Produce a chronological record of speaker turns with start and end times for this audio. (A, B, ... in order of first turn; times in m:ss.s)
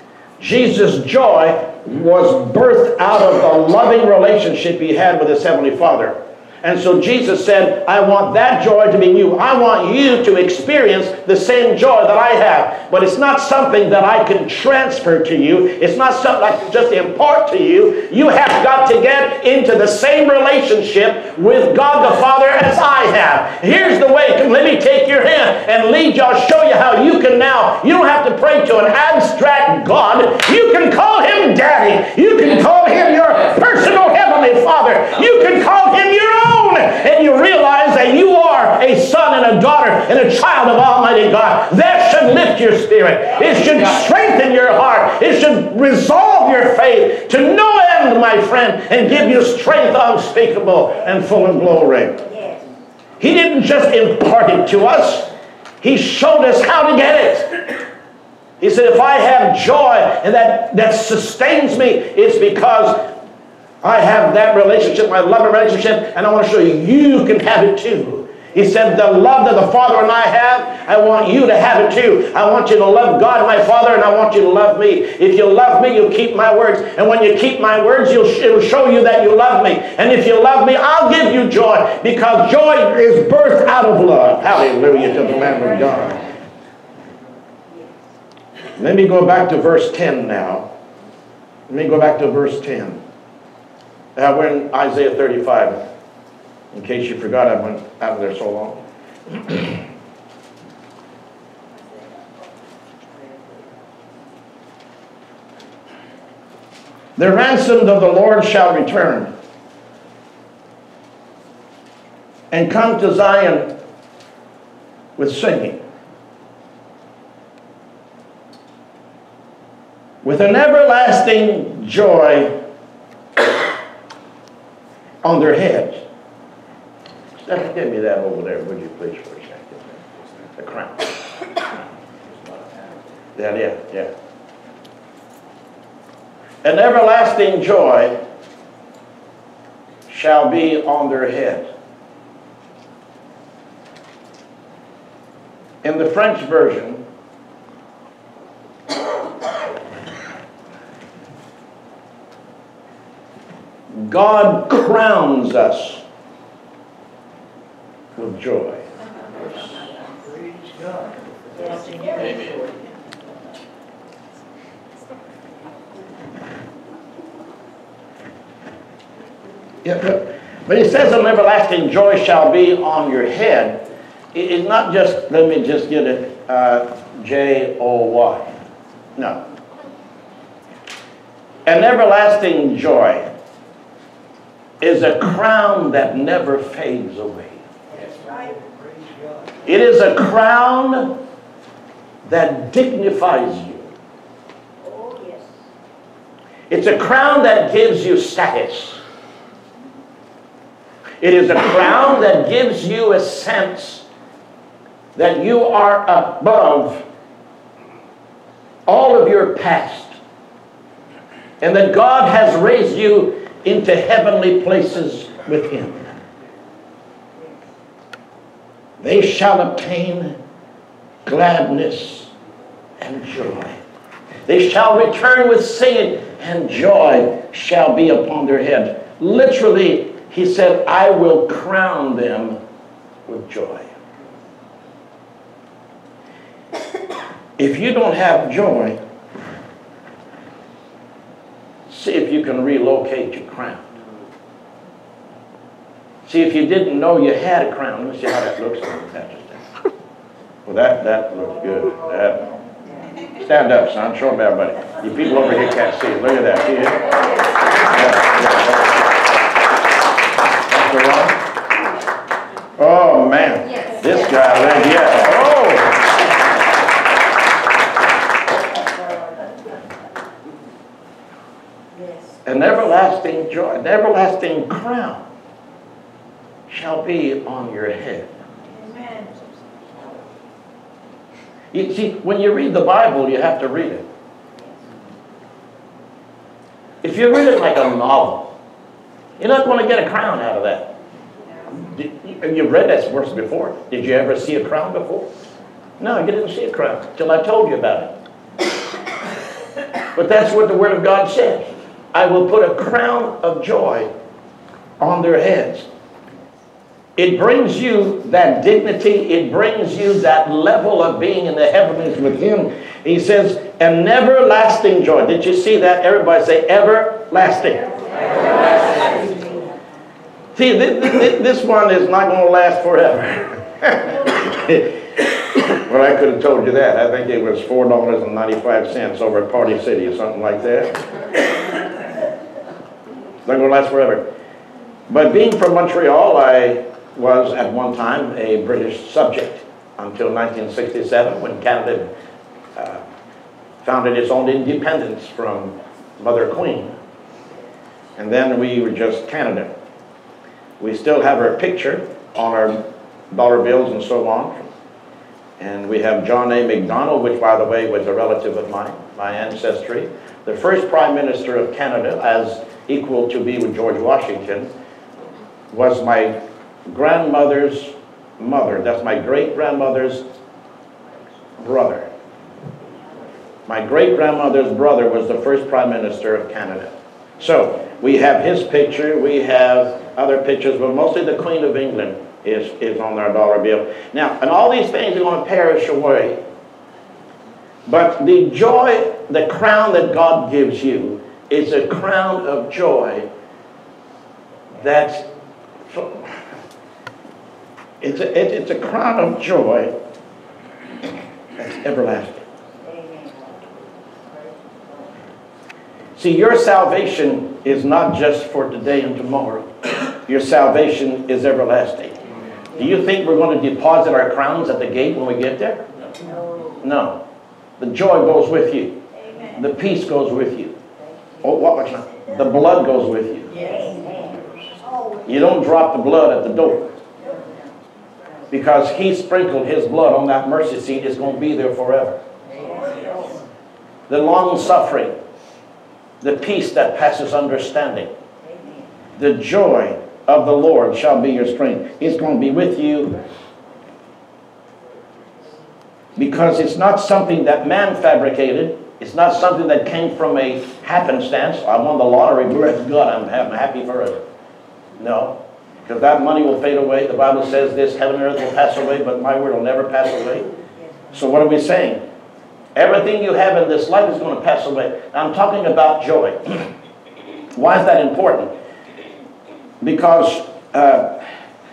0:00.4-0:52.2 A
0:52.2-0:52.7 B
0:53.2-0:55.3 A
0:55.8-0:57.5 A
0:58.6-1:03.1 A
1:03.8-1:26.3 A
1:28.8-1:30.7 A
1:31.7-1:33.0 A
1:34.2-1:35.8 A
1:36.7-1:38.8 A
1:39.3-1:39.8 A
1:47.2-1:49.3 A
1:52.5-1:53.7 A
1:55.2-1:55.8 A
2:00.2-2:02.5 A
2:05.2-2:06.0 A
2:07.4-2:10.0 A
2:10.6-2:11.4 A
2:13.4-2:14.1 A
2:16.6-2:18.2 A
2:20.1-2:21.7 A
2:25.8-2:27.0 A
2:33.9-2:36.0 A
2:38.2-2:38.9 A
2:41.5-2:42.7 B
2:49.8-2:53.8 A
2:54.3-2:58.5 A
2:59.2-2:59.4 A
3:01.7-3:03.3 A
3:04.8-3:07.6 A
3:07.9-3:09.0 B
3:09.7-3:11.1 A
3:12.2-3:13.9 A
3:14.8-3:15.6 B
3:16.7-3:19.0 A
3:21.2-3:24.0 A
3:25.2-3:27.0 A
3:28.9-3:30.2 A
3:31.6-3:36.1 A
3:39.0-3:40.4 A
3:41.2-3:42.3 A
3:43.0-3:43.8 A
3:44.5-3:52.6 A
3:53.3-3:53.9 A
3:57.6-3:59.0 A
4:01.9-4:03.8 A
4:06.3-4:09.6 A
4:10.7-4:12.5 A
4:13.4-4:17.0 A
4:17.8-4:19.0 A
4:20.7-4:21.4 A
4:22.8-4:26.0 A
4:28.9-4:29.5 B
4:31.9-4:32.4 B
4:32.4-4:35.2 A
4:36.7-4:38.3 A
4:38.7-4:39.3 B
4:41.7-4:44.0 A
4:47.0-4:48.5 A
4:49.4-4:50.9 A
4:51.8-4:55.3 A
4:56.0-4:58.1 A
5:00.2-5:04.1 A
5:05.0-5:05.9 A
5:07.2-5:17.9 A
5:19.0-5:19.4 B
5:20.6-5:31.0 A
5:33.4-5:34.2 A
5:35.1-5:42.1 A
5:42.8-5:43.0 A
5:43.8-5:47.0 A
5:48.2-5:49.7 A
5:50.8-5:54.7 A
5:55.6-6:04.7 A
6:05.7-6:06.3 A
6:06.9-6:10.2 A
6:11.6-6:12.1 A
6:13.7-6:26.4 A
6:27.9-6:33.3 A
6:34.8-6:35.2 A
6:35.9-6:36.3 A
6:38.0-6:39.9 A
6:41.6-6:42.4 A
6:42.8-6:45.1 B
6:46.2-6:52.2 A
6:52.8-6:55.8 A
6:56.2-6:56.8 B
6:56.8-6:57.2 A
6:57.8-6:59.0 A
6:59.2-6:59.6 B
6:59.6-7:00.8 A
7:01.4-7:03.5 A
7:03.5-7:05.2 B
7:05.3-7:06.9 A
7:07.2-7:07.7 B
7:08.5-7:12.2 A
7:12.5-7:13.4 B
7:14.1-7:15.1 A
7:16.2-7:18.1 A
7:18.4-7:18.9 B
7:19.2-7:23.2 A
7:26.2-7:34.2 A
7:35.0-7:40.5 A
7:41.1-7:42.0 A
7:42.8-7:46.7 A
7:47.6-7:48.5 A
7:49.8-7:51.2 A